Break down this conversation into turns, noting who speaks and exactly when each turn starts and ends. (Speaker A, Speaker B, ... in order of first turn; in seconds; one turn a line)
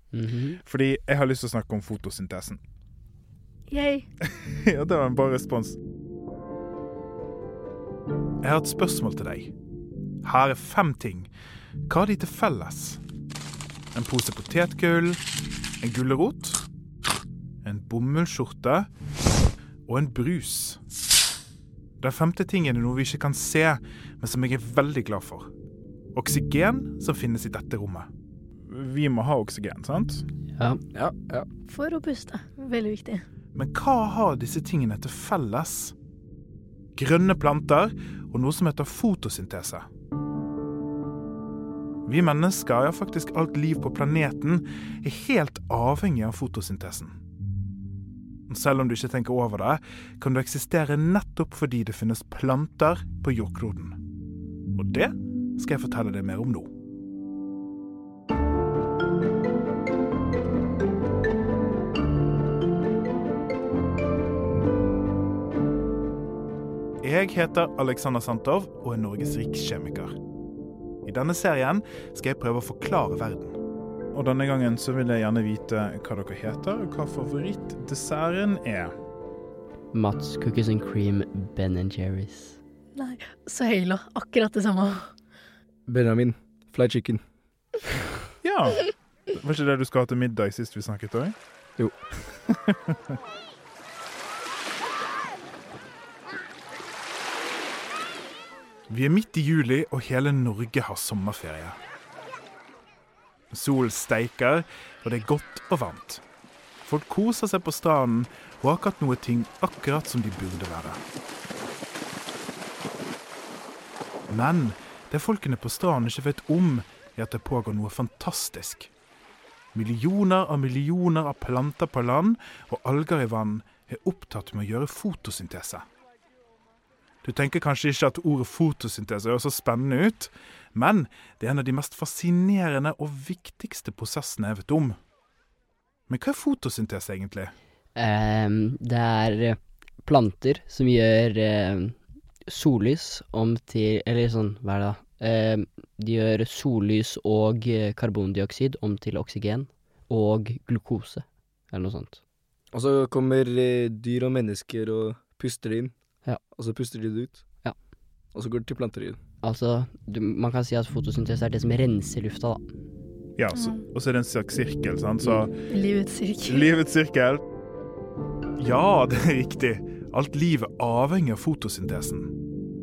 Speaker A: 0.1-0.6
Speaker B: 0.6-2.6
Speaker C: 3.7-4.0
Speaker B: 4.2-5.8
Speaker B: 8.4-9.5
Speaker B: 10.2-11.3
Speaker B: 11.9-13.0
Speaker B: 13.9-15.2
Speaker B: 15.8-16.6
Speaker B: 17.6-18.9
Speaker B: 19.9-20.8
Speaker B: 22.0-25.5
Speaker B: 26.1-28.1
Speaker B: 28.6-30.3
Speaker D: 30.9-31.5
Speaker C: 31.6-33.2
Speaker B: 33.5-35.9
Speaker B: 37.0-39.9
Speaker B: 42.0-47.1
Speaker B: 48.5-54.0
Speaker B: 54.7-56.7
Speaker B: 67.0-70.1
Speaker B: 71.0-73.6
Speaker B: 74.1-78.9
Speaker A: 79.9-82.6
Speaker C: 82.9-85.1
Speaker D: 85.9-87.2
Speaker B: 88.4-91.3
Speaker B: 92.5-93.0
Speaker B: 98.9-101.8
Speaker B: 103.5-106.2
Speaker B: 106.8-111.0
Speaker B: 114.3-118.9
Speaker B: 119.7-125.8
Speaker B: 127.2-135.0
Speaker B: 136.1-137.5
Speaker A: 137.9-152.2
Speaker D: 152.7-155.9
Speaker D: 156.5-157.4
Speaker D: 158.3-159.2
Speaker A: 159.4-162.6
Speaker B: 163.4-165.5
Speaker C: 163.5-163.8
Speaker C: 165.7-166.7
Speaker B: 166.4-167.4
Speaker B: 168.6-172.4